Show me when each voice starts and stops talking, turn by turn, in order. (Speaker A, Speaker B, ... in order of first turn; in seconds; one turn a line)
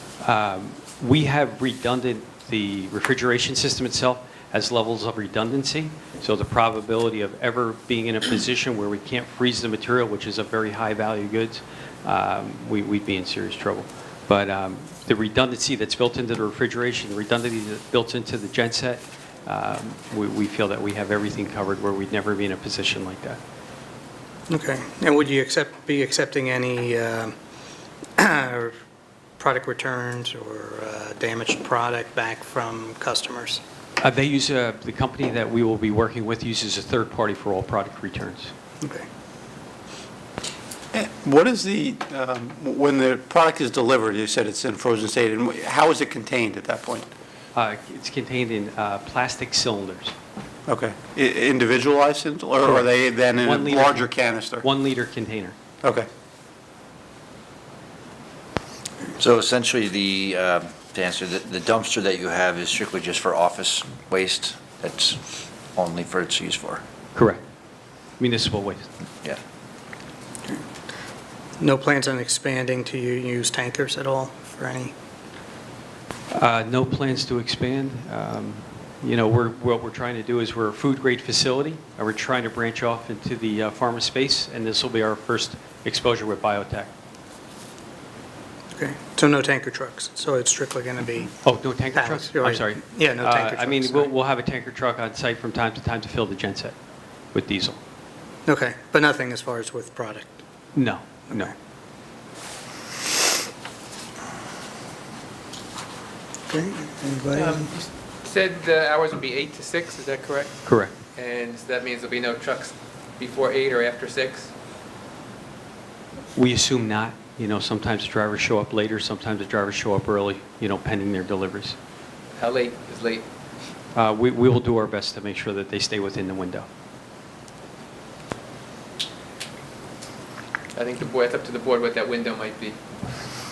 Speaker A: 0.2-23.4
Speaker B: 24.5-27.3
Speaker B: 28.2-28.7
Speaker B: 29.4-33.6
Speaker A: 34.0-38.5
Speaker C: 40.9-47.1
Speaker A: 47.5-50.1
Speaker C: 50.7-54.6
Speaker A: 53.4-55.5
Speaker D: 59.1-65.2
Speaker D: 65.7-66.8
Speaker A: 67.1-67.4
Speaker A: 68.2-68.9
Speaker B: 71.6-74.9
Speaker A: 76.3-86.9
Speaker B: 88.8-91.3
Speaker A: 91.4-96.8
Speaker B: 91.9-94.1
Speaker A: 97.3-97.8
Speaker B: 98.5-100.4
Speaker A: 100.7-101.5
Speaker B: 106.5-107.7
Speaker E: 107.3-110.6
Speaker A: 110.6-110.9
Speaker E: 111.1-114.5
Speaker A: 116.3-121.8
Speaker E: 122.4-123.2
Speaker A: 123.9-126.7
Speaker E: 130.7-132.8